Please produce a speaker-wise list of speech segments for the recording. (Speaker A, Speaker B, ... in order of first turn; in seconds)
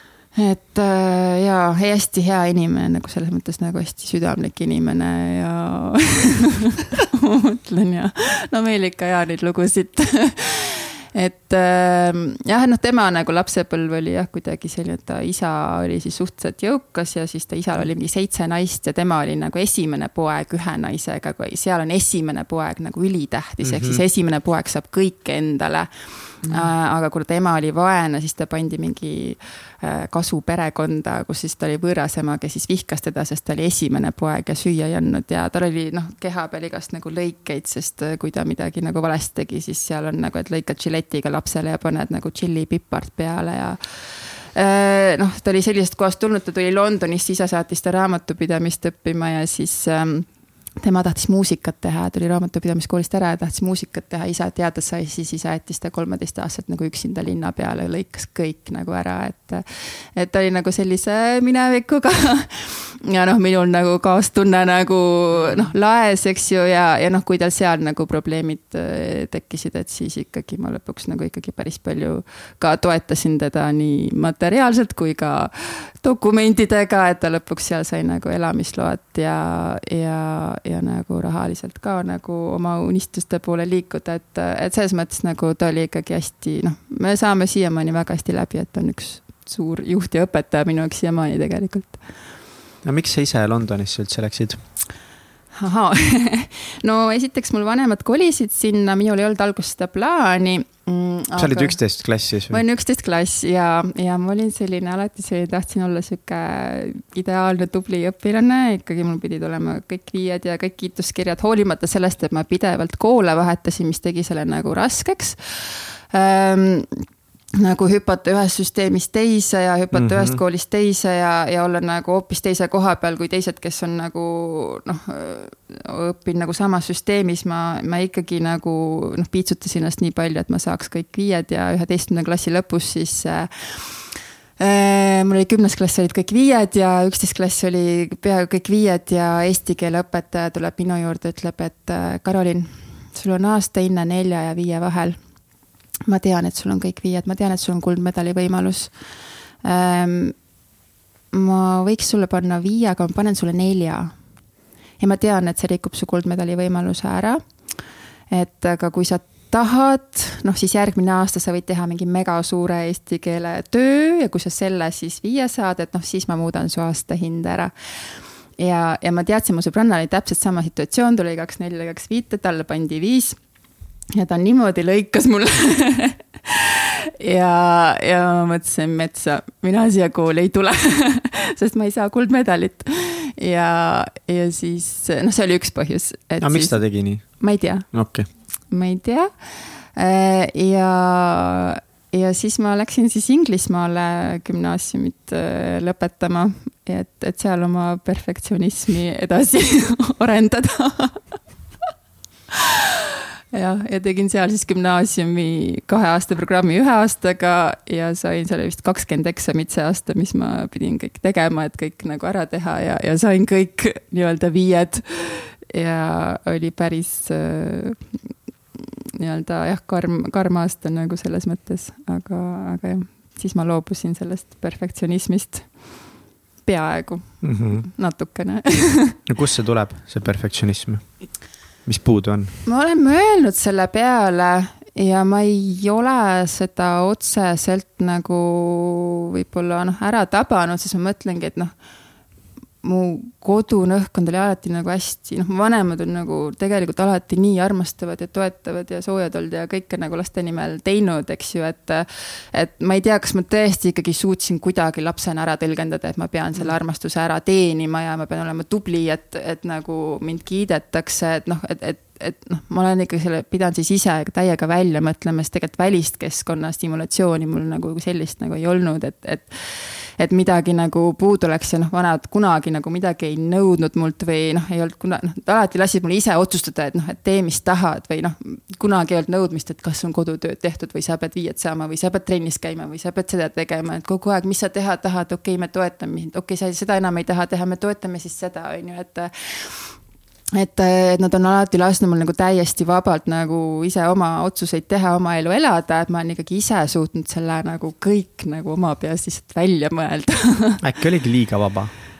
Speaker A: 0.3-43.8, 44.5-50.3, 50.8-59.6, 60.1-92.0, 95.6-101.8, 102.5-116.9, 117.5-133.5, 134.6-145.2, 146.1-148.9, 149.6-150.3, 151.3-154.1, 155.0-157.4, 158.3-167.7, 168.6-173.4, 174.1-187.9, 188.7-189.3, 189.9-201.2, 202.5-218.0, 219.2-225.7, 226.6-229.2, 232.6-241.7, 242.8-269.5, 270.2-289.8, 290.6-300.8
Speaker B: 23.6-24.0, 92.8-94.6, 101.4-102.6, 119.9-120.4, 186.4-187.3, 187.9-188.3, 227.4-227.8, 229.3-231.0, 231.8-232.5, 300.8-301.9